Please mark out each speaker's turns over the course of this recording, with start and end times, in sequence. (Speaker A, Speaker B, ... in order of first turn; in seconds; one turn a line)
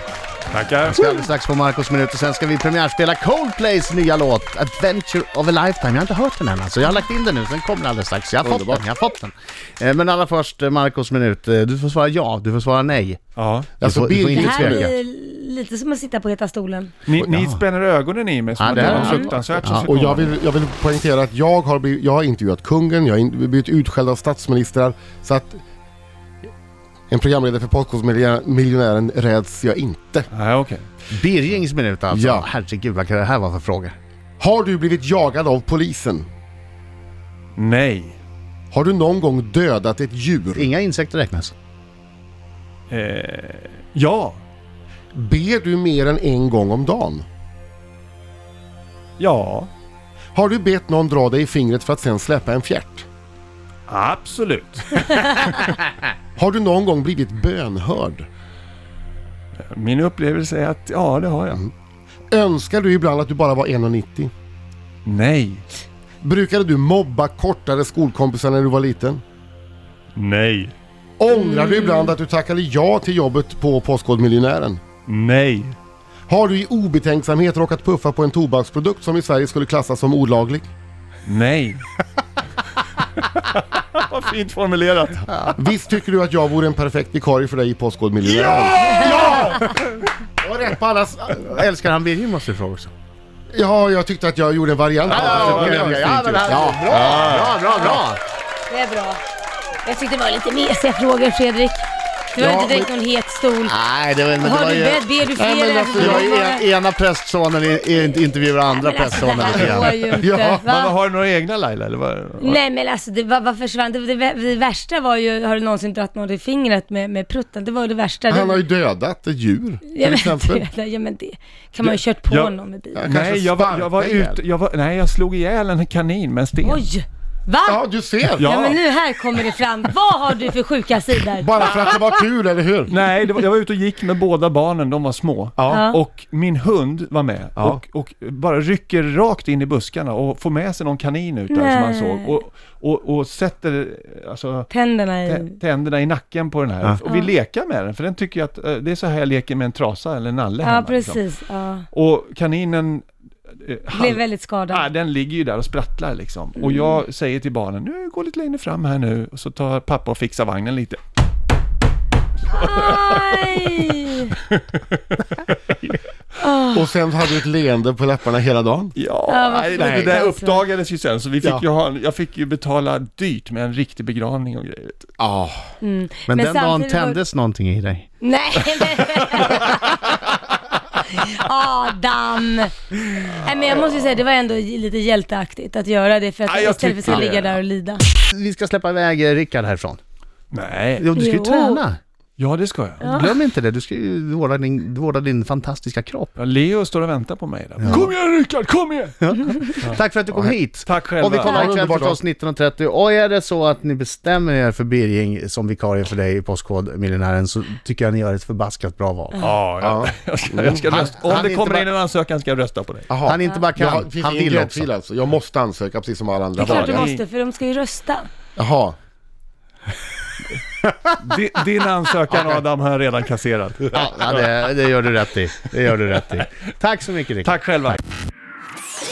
Speaker A: 0.5-1.1
Speaker B: 0.9-13.2
Speaker C: 8.4-8.8
Speaker A: 13.4-13.7
Speaker C: 13.8-14.9
Speaker B: 13.8-14.9
Speaker D: 14.3-16.9
Speaker A: 17.0-20.3
Speaker B: 17.2-17.6
Speaker B: 18.6-19.9
Speaker D: 18.7-19.3
Speaker C: 19.8-25.6
Speaker C: 27.1-30.3
Speaker A: 30.3-30.9
Speaker B: 31.1-33.9
Speaker C: 32.1-32.5
Speaker C: 34.4-36.3
Speaker A: 37.5-38.2
Speaker C: 38.7-40.7
Speaker B: 40.6-41.5
Speaker A: 42.9-44.4
Speaker C: 45.1-47.2
Speaker A: 49.2-49.7
Speaker C: 50.3-53.1
Speaker A: 53.9-55.6
Speaker C: 56.4-58.3
Speaker A: 59.6-61.7
Speaker C: 62.3-64.3
Speaker A: 65.0-65.6
Speaker C: 66.2-69.2
Speaker A: 70.2-70.7
Speaker C: 71.2-74.8
Speaker D: 71.4-72.1
Speaker A: 75.1-75.8
Speaker C: 76.3-80.7
Speaker A: 81.2-81.8
Speaker A: 83.1-85.5
Speaker C: 85.5-89.7
Speaker A: 88.2-90.0
Speaker D: 88.8-89.2
Speaker C: 90.4-91.6
Speaker B: 91.3-92.9
Speaker C: 93.5-97.2
Speaker B: 95.1-98.2
Speaker A: 95.1-96.0
Speaker A: 96.9-98.0
Speaker D: 98.7-99.2
Speaker D: 99.8-103.7
Speaker C: 102.4-102.9
Speaker B: 103.7-105.1
Speaker D: 104.4-106.6
Speaker C: 105.3-106.3
Speaker B: 105.9-110.1
Speaker D: 108.7-110.9
Speaker A: 109.5-109.9
Speaker C: 110.2-110.7
Speaker A: 110.6-112.6
Speaker D: 112.4-118.6
Speaker C: 118.3-120.7
Speaker D: 119.9-123.0
Speaker A: 122.3-126.9
Speaker C: 122.9-124.4
Speaker D: 126.6-127.8
Speaker C: 127.6-128.5
Speaker A: 128.4-128.8
Speaker D: 128.4-131.8
Speaker C: 131.4-132.9
Speaker A: 132.9-151.2
Speaker C: 135.6-135.8
Speaker D: 135.7-136.0
Speaker D: 141.5-142.3
Speaker D: 144.7-145.6
Speaker D: 147.0-147.3
Speaker D: 150.6-151.8
Speaker A: 151.9-161.0
Speaker D: 153.9-154.9
Speaker D: 162.5-164.3
Speaker A: 162.6-163.4
Speaker A: 164.3-165.0
Speaker D: 166.4-166.9
Speaker C: 166.7-168.9
Speaker A: 169.0-175.1
Speaker D: 169.3-170.6
Speaker C: 169.8-170.2
Speaker C: 175.2-175.7
Speaker D: 175.8-177.2
Speaker B: 176.3-178.1
Speaker D: 178.2-188.0
Speaker A: 186.5-187.6
Speaker B: 187.1-187.3
Speaker B: 188.1-190.0
Speaker A: 190.5-191.1
Speaker B: 191.0-192.0
Speaker D: 191.1-191.8
Speaker A: 192.4-193.1
Speaker D: 193.0-193.4
Speaker B: 193.1-196.3
Speaker A: 196.4-199.2
Speaker B: 197.8-198.1
Speaker B: 199.2-209.5
Speaker A: 200.8-201.7
Speaker C: 201.4-202.2
Speaker A: 209.4-213.1
Speaker C: 209.8-210.9
Speaker B: 210.8-211.9
Speaker C: 213.1-217.1
Speaker B: 213.2-214.9
Speaker A: 216.6-217.2
Speaker D: 216.6-218.3
Speaker C: 218.6-218.9
Speaker A: 221.2-224.4
Speaker B: 223.9-228.0
Speaker A: 227.4-228.0